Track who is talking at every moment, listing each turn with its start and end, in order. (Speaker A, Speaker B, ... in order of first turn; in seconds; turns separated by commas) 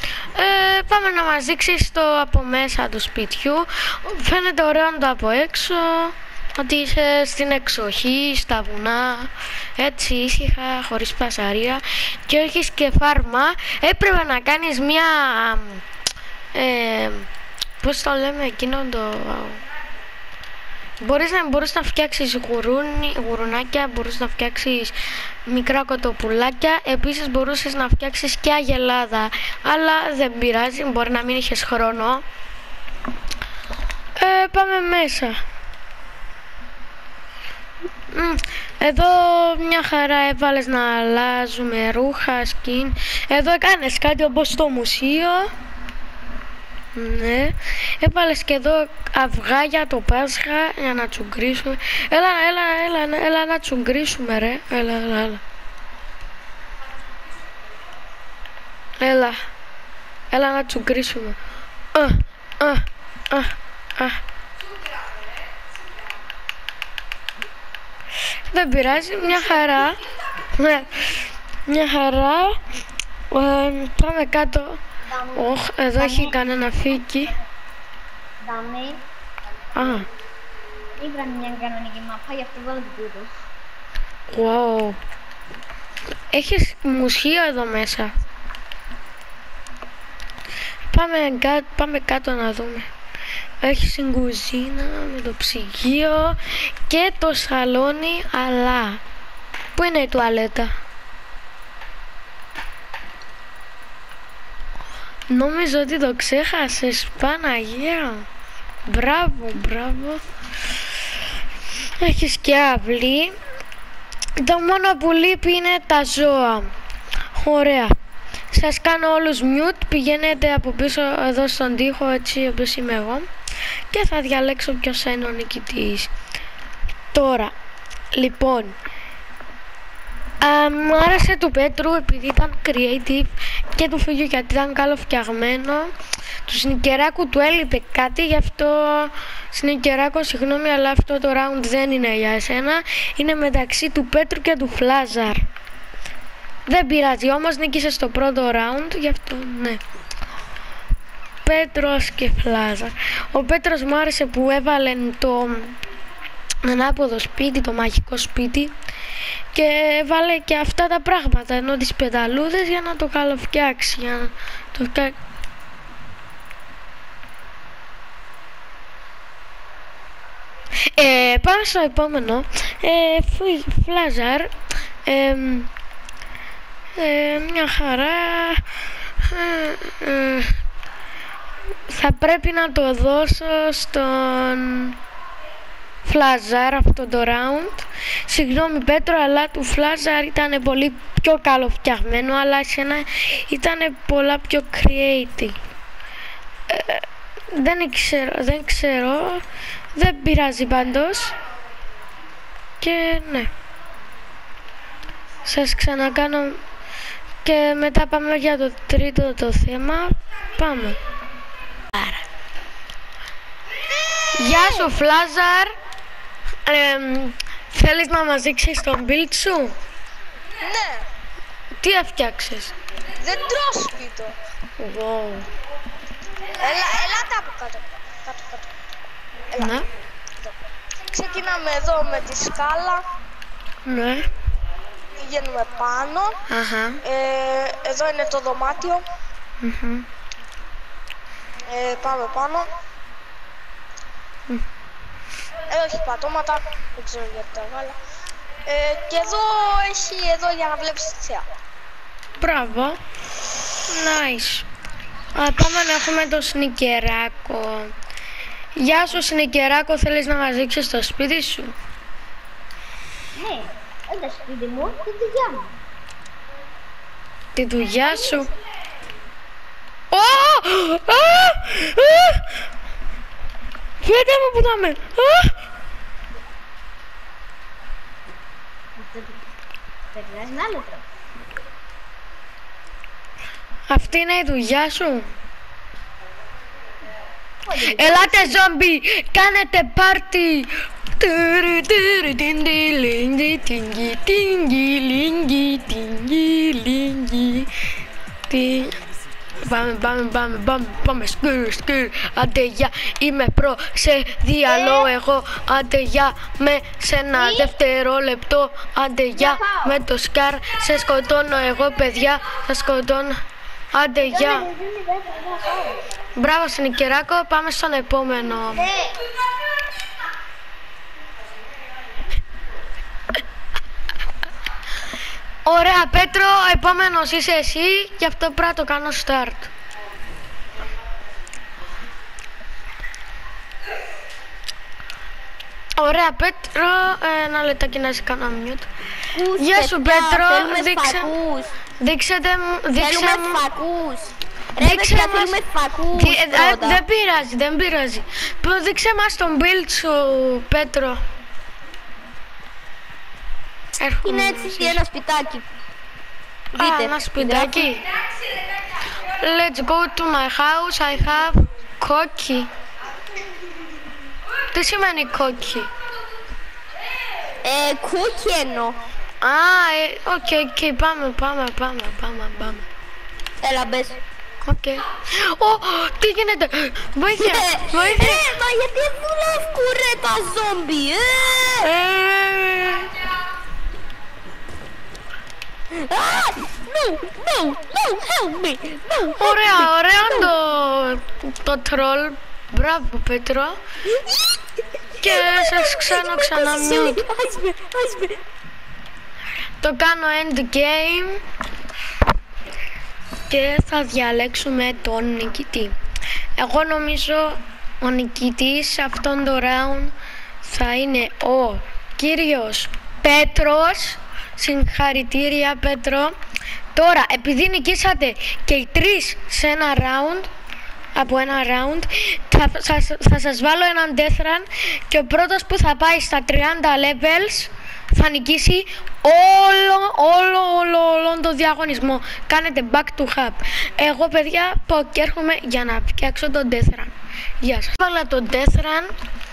Speaker A: 0.3-15.8, Speaker A: 16.6-17.3, Speaker A: 17.8-19.6, Speaker A: 21.0-24.9, Speaker A: 25.5-32.2, Speaker A: 34.2-35.4, Speaker A: 38.1-45.5, Speaker A: 47.0-55.4, Speaker A: 59.0-59.4, Speaker A: 60.3-61.4, Speaker A: 61.9-64.2, Speaker A: 68.5-70.0, Speaker A: 70.5-72.6, Speaker A: 73.3-74.8, Speaker B: 75.1-76.4, Speaker A: 75.3-77.3, Speaker B: 78.4-79.0, Speaker A: 79.8-80.1, Speaker B: 79.8-80.0, Speaker B: 81.0-83.4, Speaker A: 84.3-85.0, Speaker A: 86.3-88.1, Speaker A: 90.9-92.9, Speaker A: 93.6-99.0, Speaker A: 99.8-100.7, Speaker A: 105.3-108.3, Speaker A: 108.9-110.2, Speaker A: 112.0-113.4, Speaker A: 114.4-116.7, Speaker A: 117.3-118.0, Speaker A: 118.5-123.3, Speaker A: 123.9-126.1, Speaker A: 127.1-127.5, Speaker A: 128.1-128.8, Speaker A: 130.4-135.9, Speaker A: 136.5-145.5, Speaker A: 146.7-149.8, Speaker A: 151.4-155.8, Speaker A: 156.6-158.7, Speaker A: 159.5-165.2, Speaker A: 170.9-174.5, Speaker A: 175.1-175.7, Speaker A: 177.0-178.6, Speaker A: 179.2-180.6, Speaker A: 181.9-185.0, Speaker A: 186.0-195.6, Speaker A: 196.7-199.4, Speaker A: 199.9-201.3, Speaker A: 202.8-203.5, Speaker A: 205.5-206.6, Speaker A: 207.4-211.0, Speaker A: 211.9-212.2, Speaker C: 213.9-214.7, Speaker A: 214.3-215.7, Speaker A: 216.7-219.7, Speaker C: 220.6-221.1, Speaker A: 221.8-222.7, Speaker C: 223.2-224.3, Speaker A: 224.8-225.5, Speaker C: 226.6-228.7, Speaker C: 229.5-229.8, Speaker A: 229.6-229.9, Speaker C: 231.1-233.1, Speaker A: 233.8-234.3, Speaker C: 235.2-236.4, Speaker A: 236.5-237.0, Speaker C: 237.0-239.1, Speaker A: 239.6-240.1, Speaker C: 241.7-242.7, Speaker C: 245.7-248.0, Speaker C: 248.7-251.5, Speaker A: 252.4-253.0, Speaker A: 253.9-254.7, Speaker A: 255.3-257.9, Speaker A: 258.8-261.7, Speaker B: 263.4-265.8, Speaker A: 267.6-268.5, Speaker A: 270.1-272.5, Speaker A: 274.0-275.6, Speaker B: 279.0-279.4, Speaker B: 280.1-281.1, Speaker A: 283.9-285.3, Speaker B: 287.6-288.6, Speaker A: 287.8-297.7, Speaker A: 298.5-299.0, Speaker A: 299.6-313.4, Speaker B: 304.7-305.1, Speaker B: 307.4-307.7, Speaker B: 309.4-309.9, Speaker A: 313.9-314.7, Speaker B: 314.2-316.0, Speaker A: 316.4-318.9, Speaker B: 318.8-319.1, Speaker A: 325.6-329.7, Speaker A: 336.0-338.9, Speaker D: 339.4-341.7, Speaker A: 339.5-341.4, Speaker A: 342.0-343.6, Speaker D: 343.0-347.0, Speaker A: 344.8-345.6, Speaker A: 346.1-351.2, Speaker A: 354.0-355.0, Speaker D: 354.2-355.6, Speaker D: 356.8-357.9, Speaker A: 356.8-358.0, Speaker A: 359.4-362.7, Speaker A: 364.7-365.9, Speaker D: 367.6-369.0, Speaker A: 369.4-372.9, Speaker D: 373.6-374.2, Speaker A: 374.6-378.5, Speaker D: 377.4-382.1, Speaker A: 382.0-382.9, Speaker D: 385.9-390.5, Speaker A: 389.4-393.8, Speaker D: 394.1-394.6, Speaker A: 395.2-397.2, Speaker D: 395.2-398.4, Speaker A: 399.8-401.4, Speaker A: 403.5-405.9, Speaker A: 406.6-416.4, Speaker A: 416.9-420.5, Speaker A: 421.1-439.1